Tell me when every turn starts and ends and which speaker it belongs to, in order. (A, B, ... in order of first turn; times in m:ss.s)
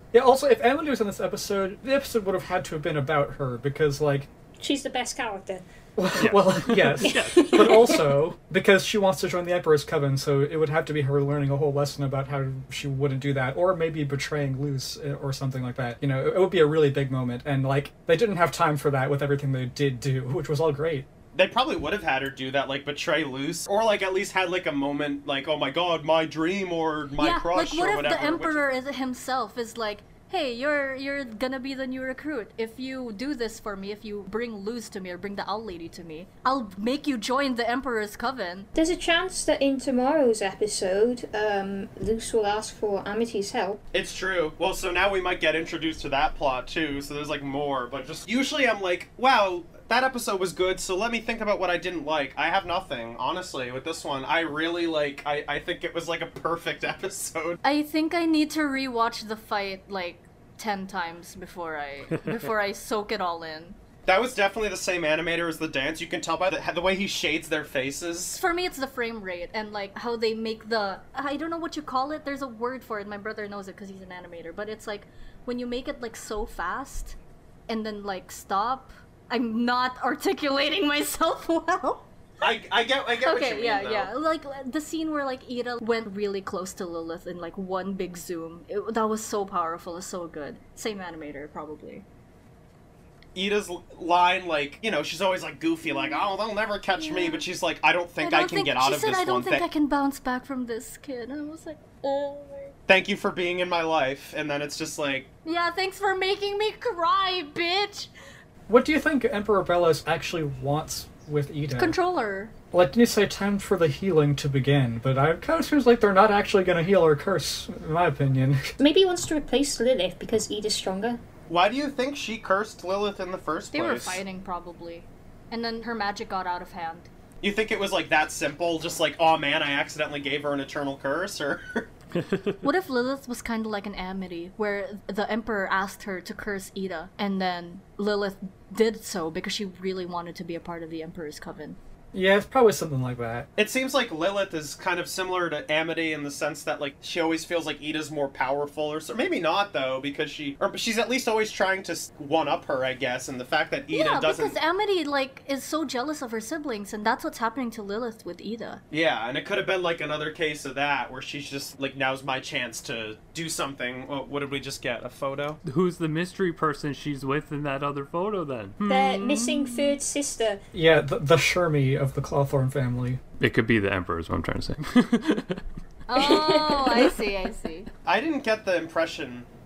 0:00.1-0:04.3 A
0:04.6-0:05.6 B
0:06.0-0:21.1 A
0:06.2-0:08.0 C
0:07.0-0:08.2 B
0:21.3-0:28.6 D
0:27.2-0:38.7 E
0:38.8-0:43.8 B
0:43.9-0:57.6 D
0:57.6-1:03.8 E
1:04.1-1:08.4 D
1:08.4-1:17.2 E
1:17.7-1:22.1 E
1:22.4-1:24.1 D
1:23.2-1:32.0 E
1:33.4-1:39.7 D
1:35.9-1:36.2 E
1:37.0-1:37.4 E
1:38.2-1:42.8 E
1:42.9-1:45.3 D
1:45.4-1:48.1 E
1:48.7-1:52.0 A
1:51.8-1:52.5 E
1:52.7-1:58.6 A
1:58.8-2:01.2 B
2:01.5-2:04.2 D
2:03.7-2:07.1 E
2:07.4-2:11.9 D
2:12.2-2:12.7 C
2:12.6-2:21.8 E
2:22.1-2:23.5 A
2:23.6-2:34.6 D
2:33.9-2:38.8 E
2:38.9-2:45.6 D
2:45.6-2:49.4 C
2:48.9-2:50.6 B
2:49.2-2:49.9 E
2:50.7-2:53.2 A
2:53.4-2:55.6 C
2:56.1-2:57.9 E
2:56.2-2:57.1 B
2:58.1-2:59.5 D